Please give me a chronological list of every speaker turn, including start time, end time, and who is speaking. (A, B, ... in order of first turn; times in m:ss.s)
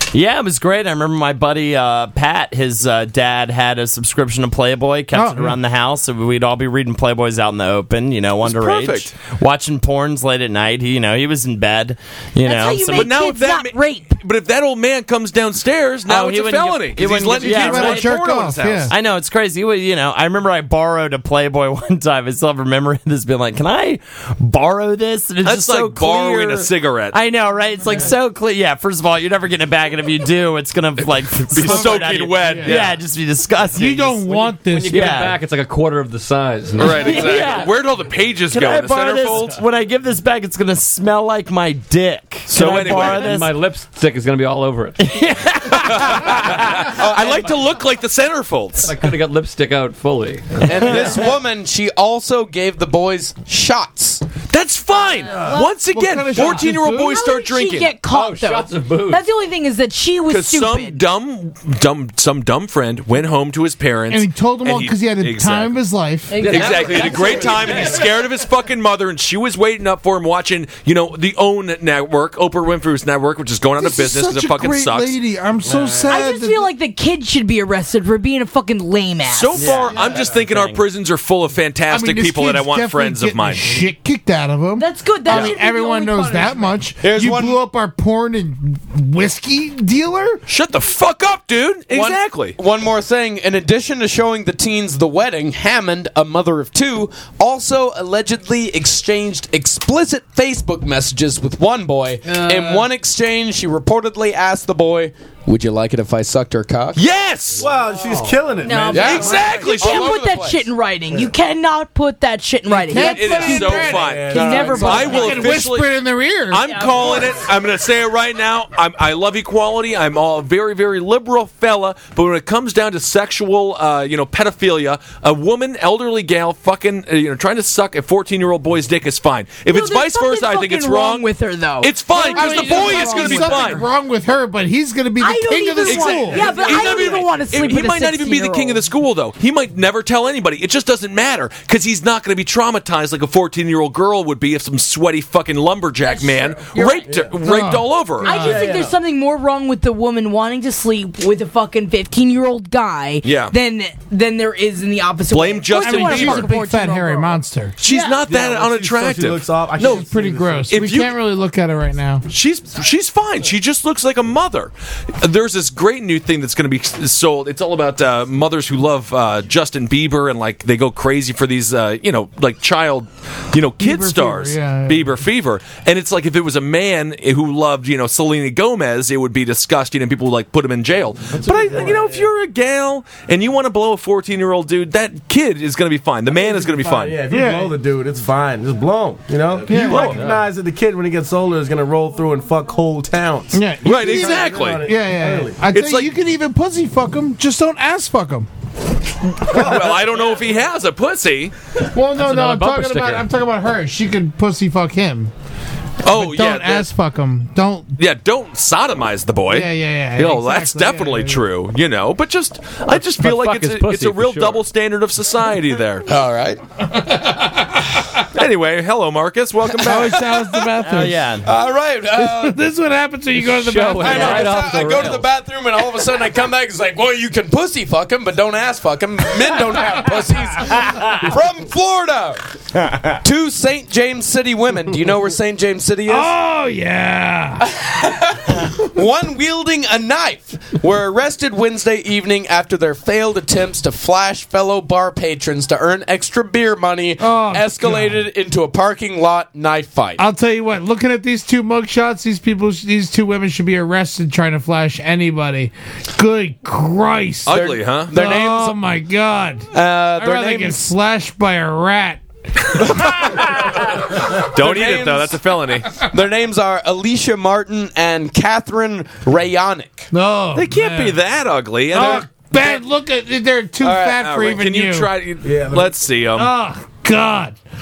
0:00.1-0:13.1 A
0:05.1-0:05.6 B
0:08.4-0:09.1 C
0:12.4-0:14.2 D
0:12.9-0:18.9 C
0:16.1-0:18.1 A
0:17.4-0:18.9 B
0:18.9-0:34.2 A
0:25.4-0:27.2 C
0:31.0-0:33.0 C
0:31.6-0:32.8 B
0:33.7-0:35.2 B
0:34.3-0:37.5 E
0:34.9-0:35.4 A
0:36.8-0:39.6 C
0:36.9-0:37.7 A
0:38.5-0:43.5 A
0:42.5-0:43.4 C
0:42.6-0:45.1 E
0:45.0-0:47.0 A
0:45.7-0:48.9 C
0:48.8-0:51.3 E
0:50.6-0:54.2 F
0:54.5-0:58.0 C
0:55.3-0:55.7 D
0:55.5-0:57.2 B
0:57.0-1:01.0 D
0:58.1-0:59.2 E
1:00.3-1:05.8 C
1:04.1-1:06.5 B
1:06.3-1:08.1 D
1:06.4-1:15.2 C
1:06.5-1:06.8 E
1:13.8-1:16.7 B
1:15.6-1:16.2 G
1:16.1-1:19.9 D
1:19.2-1:23.8 C
1:19.6-1:20.8 A
1:21.9-1:30.4 B
1:24.8-1:26.9 D
1:27.0-1:27.6 F
1:30.5-1:32.6 C
1:31.9-1:47.0 F
1:42.3-1:42.8 D
1:47.0-1:47.7 C
1:47.6-1:49.4 G
1:48.1-1:48.4 E
1:48.6-1:55.6 D
1:48.9-1:50.7 F
1:49.0-1:50.1 C
1:52.7-1:56.7 B
1:53.0-1:55.9 C
1:53.9-1:55.4 G
1:56.5-2:11.3 C
1:56.6-1:57.5 D
2:09.7-2:13.8 D
2:11.8-2:13.8 C
2:12.3-2:16.7 B
2:15.2-2:18.9 D
2:15.9-2:28.6 C
2:26.0-2:27.2 D
2:27.1-2:27.4 G
2:27.4-2:28.7 B
2:28.2-2:38.2 D
2:28.3-2:29.0 G
2:33.2-2:33.5 C
2:35.3-2:36.5 C
2:35.8-2:37.8 B
2:37.8-2:40.1 C
2:38.3-2:40.7 G
2:39.8-2:42.2 B
2:40.7-2:41.2 C
2:42.3-3:07.3 C
2:53.8-2:55.2 B
3:01.3-3:02.3 G
3:06.3-3:15.7 G
3:07.3-3:07.7 B
3:09.7-3:10.2 B
3:09.8-3:10.2 C
3:09.9-3:10.5 E
3:13.5-3:18.5 B
3:13.8-3:14.9 C
3:15.7-3:16.1 C
3:19.4-3:21.5 C
3:21.9-3:25.3 B
3:22.2-3:23.3 E
3:26.0-3:26.9 C
3:26.1-3:28.0 B
3:28.0-3:36.1 C
3:29.5-3:31.4 B
3:32.9-3:34.7 E
3:36.1-3:36.6 F
3:38.3-3:40.6 C
3:39.8-3:41.3 B
3:40.8-3:41.5 A
3:41.4-3:42.6 F
3:42.2-3:44.9 B
3:43.4-3:45.3 E
3:44.0-3:52.4 F
3:53.1-3:56.3 F
3:56.1-3:57.6 B
3:57.6-4:10.2 F
4:07.2-4:08.3 B
4:10.2-4:23.2 B
4:17.5-4:18.1 C
4:17.5-4:18.8 F
4:19.7-4:20.9 F
4:23.0-4:23.5 F
4:24.3-4:26.0 C
4:24.4-4:25.4 F
4:26.0-4:30.1 F
4:30.1-4:31.2 B
4:30.6-4:32.7 C
4:31.9-4:35.1 B
4:33.8-4:34.2 F
4:34.1-4:36.5 C
4:35.4-4:36.0 G
4:36.4-4:37.6 B